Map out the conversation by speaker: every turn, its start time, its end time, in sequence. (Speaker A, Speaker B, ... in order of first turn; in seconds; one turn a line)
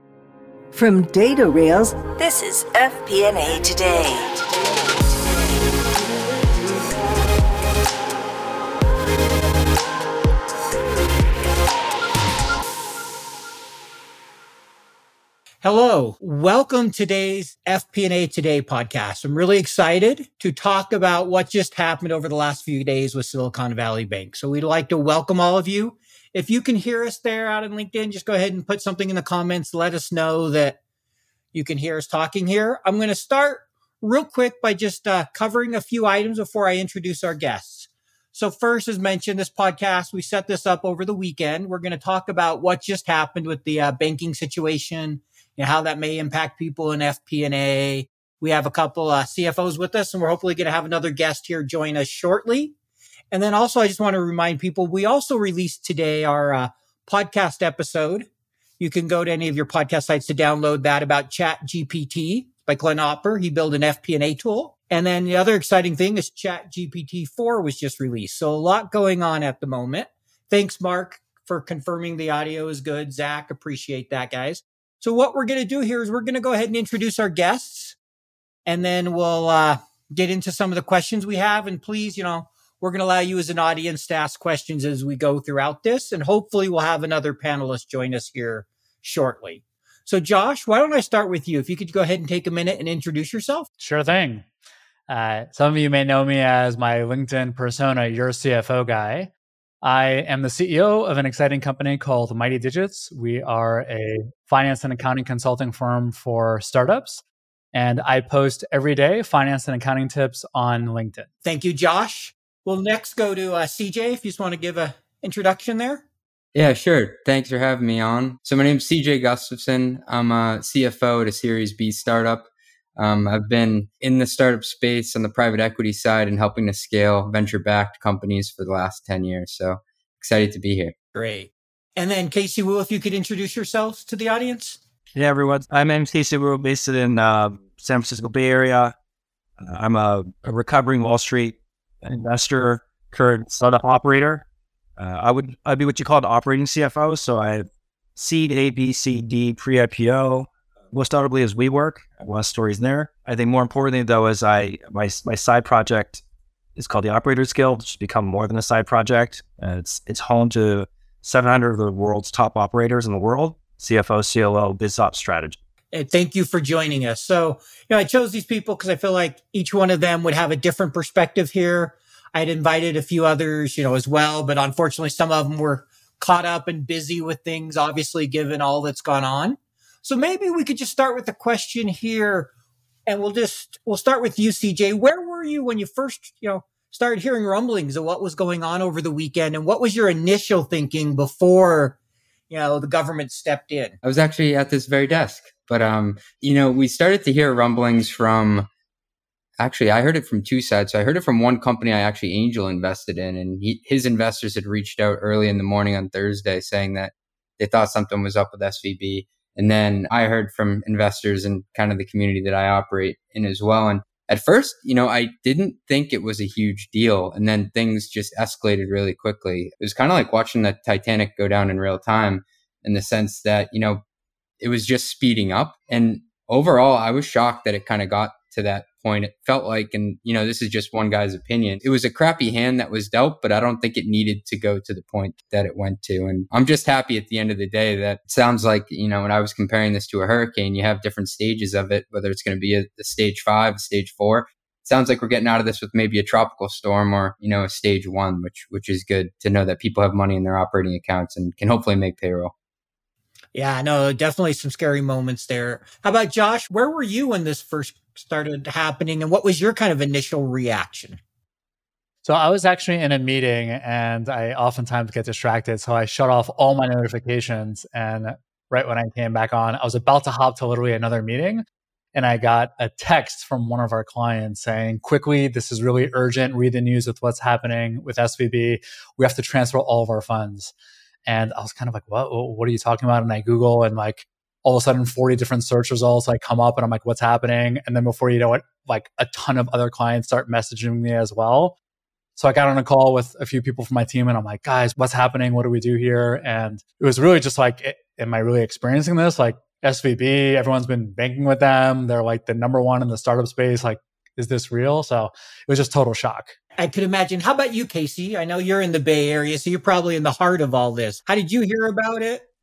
Speaker A: 0.7-5.4
Speaker B: 15.6-30.8
Speaker B: 31.5-52.7
Speaker B: 53.3-58.3
Speaker B: 58.8-78.0
Speaker B: 78.7-93.7
Speaker C: 93.8-94.5
Speaker C: 95.1-99.3
Speaker C: 99.8-111.3
Speaker B: 111.5-116.0
Speaker D: 116.5-130.9
Speaker B: 131.2-134.8
Speaker E: 135.2-138.9
Speaker E: 139.6-144.4
Speaker E: 145.0-156.2
Speaker E: 156.8-165.6
Speaker B: 165.9-182.5
Speaker B: 183.1-192.0
Speaker B: 192.5-194.0
Speaker D: 194.0-198.7
Speaker D: 199.6-224.0
Speaker D: 224.6-252.5
Speaker B: 253.5-261.2
Speaker C: 262.2-280.7
Speaker C: 281.3-291.8
Speaker C: 292.4-306.6
Speaker B: 306.8-312.4